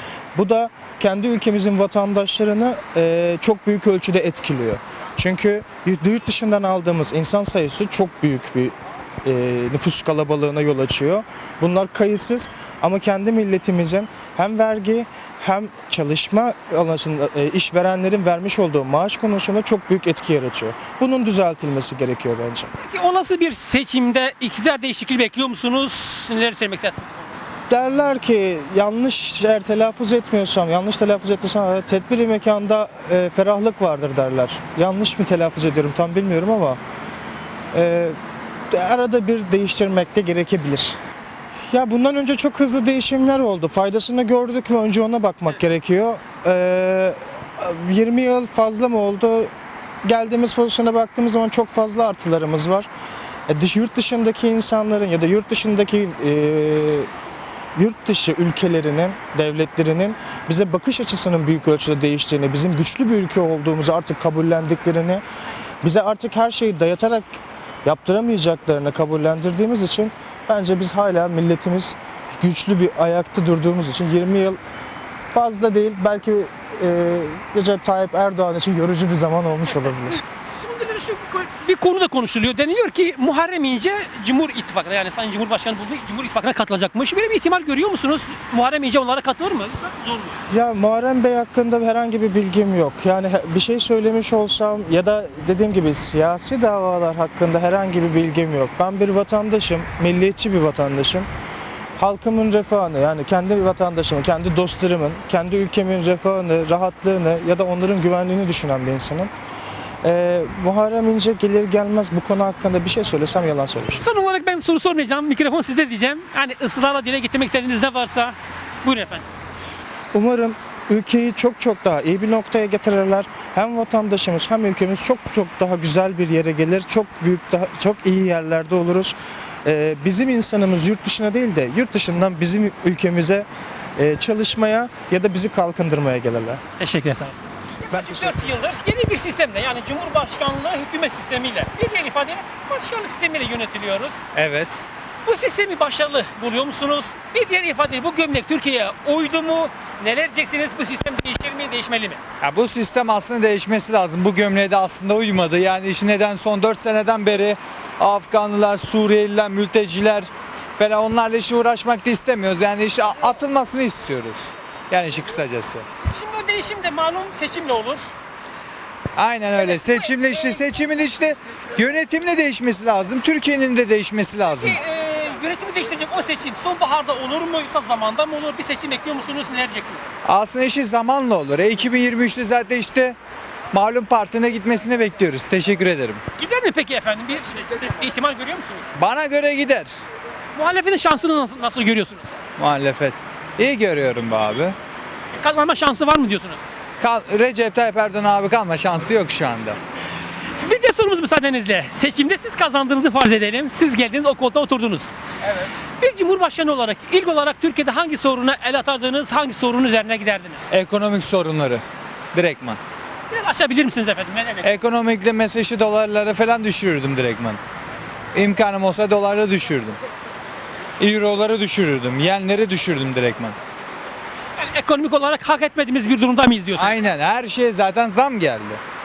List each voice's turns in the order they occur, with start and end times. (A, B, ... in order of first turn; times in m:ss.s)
0:00.3-0:22.7 A
0:22.8-0:27.1 B
0:27.7-0:36.8 A
0:37.7-0:38.2 A
0:38.7-0:41.0 A
0:41.7-0:49.5 A
0:50.0-0:52.9 A
0:53.5-0:57.1 A
0:57.8-1:05.2 A
1:05.8-1:14.6 A
1:15.3-1:20.2 A
1:20.6-1:30.4 B
1:30.5-1:41.3 A
1:42.0-1:49.3 A
1:50.0-1:54.0 A
1:54.0-1:59.2 B
2:00.1-2:13.5 A
2:14.0-2:16.6 A
2:16.8-2:24.2 B
2:17.9-2:18.4 A
2:24.3-2:24.8 C
2:25.2-2:32.2 B
2:32.4-2:45.9 C
2:46.1-2:48.1 B
2:49.2-2:54.7 C
2:49.6-2:50.6 B
2:54.5-3:00.1 B
3:00.2-3:03.2 C
3:03.7-3:06.2 C
3:06.4-3:08.9 B
3:09.0-3:10.0 C
3:10.5-3:12.3 B
3:12.6-3:14.8 C
3:15.4-3:16.6 B
3:17.0-3:19.8 C
3:20.6-3:25.1 B
3:26.0-3:30.6 B
3:30.7-3:31.8 C
3:32.3-3:32.8 C
3:33.3-3:34.7 B
3:34.6-3:37.6 C
3:38.3-3:40.0 C
3:41.0-3:43.6 C
3:44.6-3:47.0 B
3:46.8-3:48.8 C